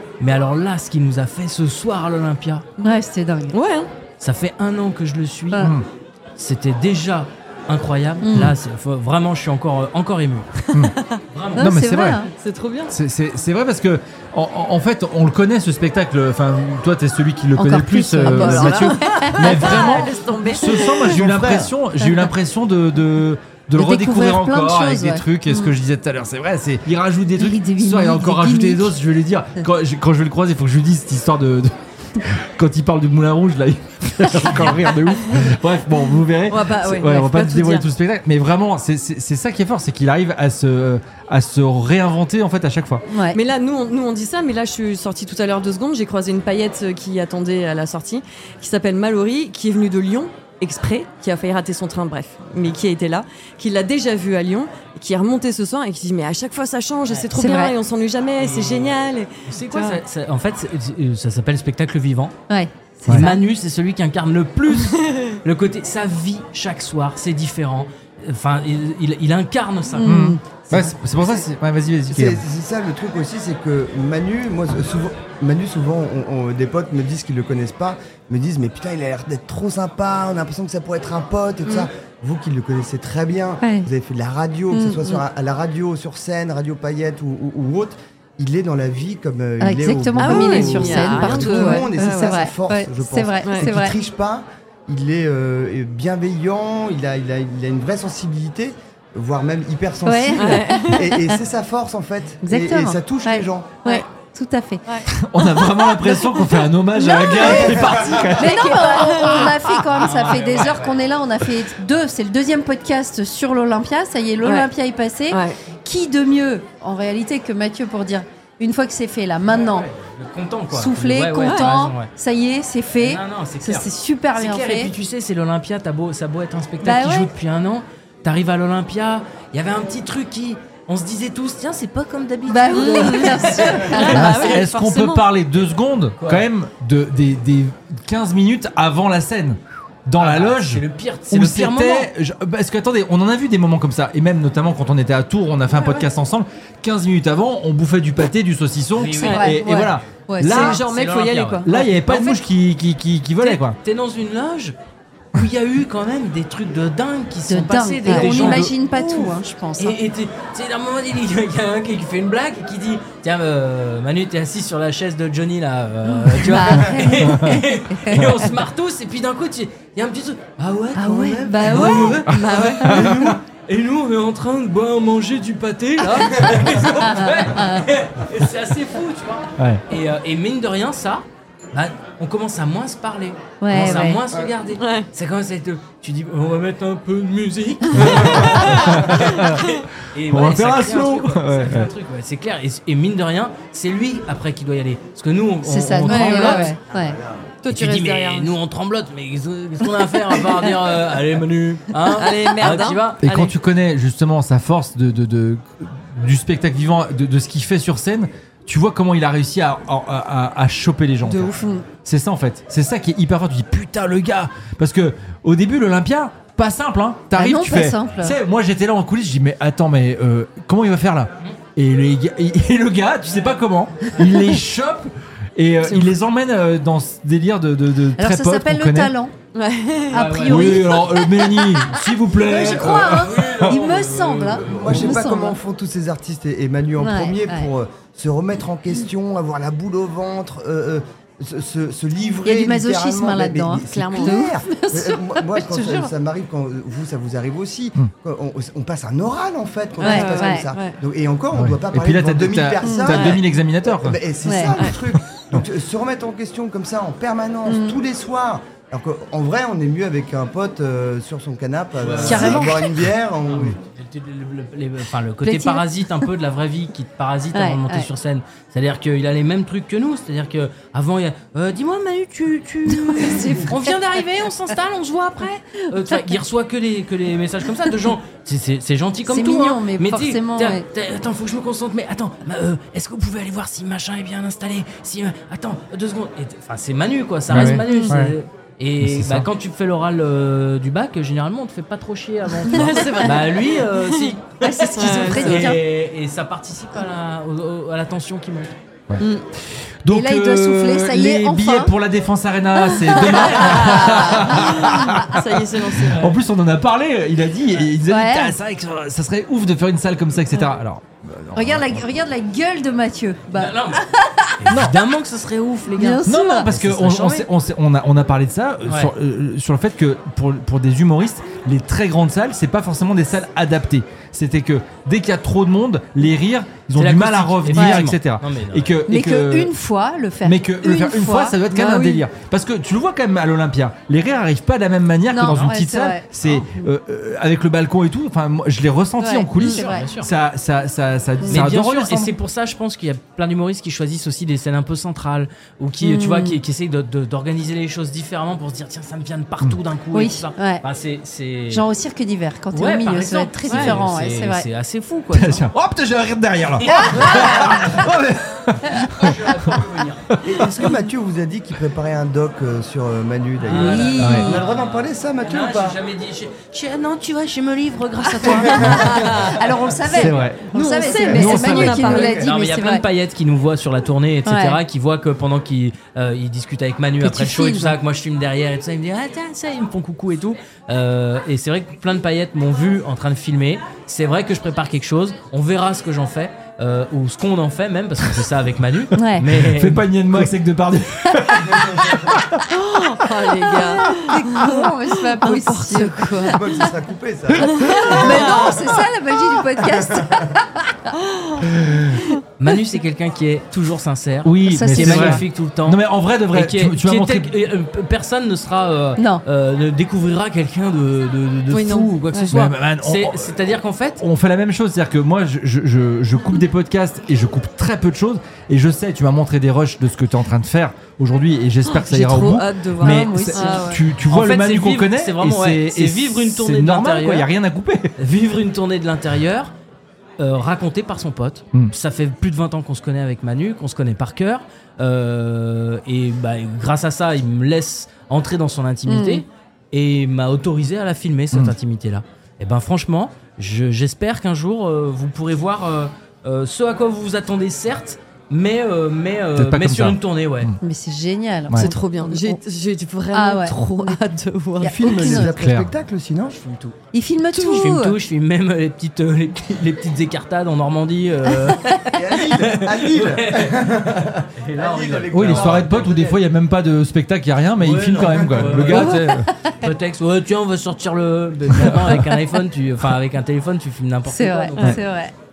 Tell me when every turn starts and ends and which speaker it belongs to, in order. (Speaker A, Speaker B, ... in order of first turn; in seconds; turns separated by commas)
Speaker A: 0.2-2.6, Speaker B: 2.8-3.5, Speaker C: 3.5-3.9, Speaker A: 4.2-5.7, Speaker D: 5.6-5.8, Speaker A: 6.4-10.6, Speaker B: 8.2-8.5, Speaker A: 11.3-11.7, Speaker D: 11.6-12.2, Speaker B: 11.6-12.3, Speaker C: 12.4-12.9, Speaker D: 12.9-43.0, Speaker B: 17.6-20.0, Speaker C: 18.3-21.2, Speaker B: 22.0-22.2, Speaker B: 23.8-25.7, Speaker B: 27.4-28.9, Speaker C: 36.5-37.9, Speaker B: 43.1-43.4, Speaker C: 43.3-60.0, Speaker A: 57.0-57.5, Speaker B: 57.3-57.7, Speaker A: 58.4-62.3, Speaker B: 62.5-63.4, Speaker A: 63.1-70.3, Speaker C: 64.8-65.3, Speaker B: 69.9-70.4, Speaker D: 70.0-72.4, Speaker E: 70.8-71.3, Speaker E: 72.1-103.8, Speaker B: 84.7-85.0, Speaker B: 89.6-93.9, Speaker C: 90.2-92.4, Speaker C: 93.4-93.7, Speaker B: 100.0-101.2, Speaker C: 100.3-101.1, Speaker B: 102.4-105.0, Speaker D: 105.1-108.7, Speaker B: 106.9-119.9, Speaker C: 108.2-109.9, Speaker A: 109.9-111.1, Speaker C: 114.4-114.7, Speaker C: 115.3-115.5, Speaker A: 119.5-122.1, Speaker B: 120.7-124.9, Speaker C: 121.4-121.7, Speaker A: 123.0-134.1, Speaker B: 126.8-127.3, Speaker B: 132.5-134.6, Speaker C: 132.7-135.2, Speaker D: 134.1-150.7, Speaker A: 136.2-136.4, Speaker A: 140.2-142.1, Speaker A: 148.9-149.6, Speaker C: 149.1-149.5, Speaker B: 149.2-150.8, Speaker A: 150.4-152.3, Speaker C: 150.4-152.3, Speaker D: 151.6-153.8, Speaker A: 153.4-154.8, Speaker A: 155.3-158.9, Speaker B: 157.5-160.0, Speaker C: 158.1-159.3, Speaker A: 159.8-196.7, Speaker B: 166.0-168.5, Speaker D: 167.2-168.2, Speaker B: 170.9-172.2, Speaker D: 171.7-173.3, Speaker C: 171.7-173.2, Speaker B: 177.1-177.9, Speaker D: 179.6-179.8, Speaker B: 183.6-184.2, Speaker C: 184.8-185.1, Speaker D: 187.9-189.7, Speaker D: 190.3-191.9, Speaker B: 195.6-197.2, Speaker C: 196.1-196.7, Speaker C: 197.6-198.5, Speaker A: 197.7-203.3, Speaker C: 202.1-203.5, Speaker D: 203.2-211.5, Speaker C: 211.3-211.8, Speaker B: 211.5-211.8, Speaker D: 212.0-229.1, Speaker B: 217.3-218.3, Speaker C: 225.8-226.1, Speaker B: 228.2-229.3, Speaker C: 229.5-231.4, Speaker A: 230.1-230.9, Speaker B: 230.1-235.6, Speaker D: 230.4-233.8, Speaker A: 232.5-234.7, Speaker E: 234.7-263.7, Speaker B: 237.0-237.7, Speaker B: 242.4-246.1, Speaker C: 243.8-244.4, Speaker C: 250.0-251.0, Speaker B: 250.0-250.6, Speaker D: 251.5-254.2, Speaker B: 252.8-253.2, Speaker C: 253.1-253.4, Speaker B: 254.4-254.7, Speaker B: 257.7-258.0, Speaker A: 262.0-262.9, Speaker B: 262.2-262.7, Speaker A: 263.4-298.7, Speaker B: 265.4-266.3, Speaker B: 267.5-268.1, Speaker B: 272.9-273.9, Speaker B: 279.2-280.8, Speaker D: 287.5-288.3, Speaker B: 287.6-288.2, Speaker D: 289.0-289.5, Speaker B: 292.7-293.5, Speaker C: 292.7-295.6, Speaker B: 294.6-295.8, Speaker D: 300.0-305.4, Speaker B: 300.1-301.9, Speaker A: 303.2-304.1, Speaker B: 303.2-303.9, Speaker C: 303.5-306.2, Speaker B: 304.4-304.7, Speaker A: 306.1-306.4, Speaker D: 306.1-312.2, Speaker B: 308.1-308.6, Speaker B: 311.5-314.5, Speaker A: 313.5-314.0, Speaker A: 314.6-317.4, Speaker D: 314.7-315.0, Speaker B: 315.9-316.7, Speaker D: 316.2-329.7, Speaker A: 318.9-319.1, Speaker A: 326.9-329.0, Speaker B: 327.7-328.0, Speaker B: 329.1-331.6, Speaker D: 330.4-342.3, Speaker C: 331.7-332.2, Speaker B: 335.3-336.8, Speaker B: 339.2-340.1, Speaker A: 339.6-340.3, Speaker B: 341.4-341.7, Speaker A: 341.5-351.9, Speaker B: 346.0-346.6, Speaker B: 350.1-350.8, Speaker B: 351.7-354.7, Speaker A: 352.7-355.7, Speaker C: 353.7-354.0, Speaker D: 355.3-359.3, Speaker A: 356.8-358.1, Speaker B: 356.9-357.9, Speaker A: 359.2-360.3, Speaker E: 360.4-366.0, Speaker A: 363.6-369.1, Speaker B: 363.7-364.6, Speaker D: 364.2-364.5, Speaker B: 368.6-373.1, Speaker C: 368.8-369.6, Speaker D: 368.8-369.1, Speaker D: 370.1-370.7, Speaker C: 370.7-372.5, Speaker D: 371.3-372.3, Speaker A: 372.2-390.1, Speaker B: 374.4-374.8, Speaker B: 377.2-377.9, Speaker B: 389.1-389.4, Speaker D: 389.6-392.7, Speaker C: 392.7-396.6, Speaker B: 394.2-396.5, Speaker E: 396.5-398.9, Speaker C: 397.7-398.8, Speaker B: 397.8-400.9, Speaker D: 401.6-402.2, Speaker A: 402.6-414.2, Speaker D: 404.4-407.5, Speaker B: 404.6-405.4, Speaker B: 409.2-409.4, Speaker C: 411.7-412.5, Speaker D: 412.5-413.6, Speaker D: 414.2-428.1, Speaker B: 421.9-424.0, Speaker C: 422.5-424.0, Speaker A: 424.2-427.5, Speaker A: 428.2-429.7, Speaker A: 430.4-450.7, Speaker B: 439.1-439.4, Speaker D: 449.6-450.7, Speaker B: 450.8-452.6, Speaker D: 451.7-451.9, Speaker C: 451.8-455.4, Speaker B: 453.3-454.2, Speaker B: 454.8-455.5, Speaker E: 454.9-456.9, Speaker D: 455.2-455.9, Speaker A: 456.6-456.9, Speaker B: 457.1-458.2, Speaker C: 457.5-457.9, Speaker A: 457.7-466.4, Speaker B: 461.5-462.0, Speaker E: 462.1-466.4, Speaker D: 465.3-469.5, Speaker A: 467.8-469.2, Speaker B: 468.9-469.5, Speaker A: 469.8-475.0, Speaker D: 471.7-472.1, Speaker B: 472.1-472.4, Speaker B: 474.2-475.3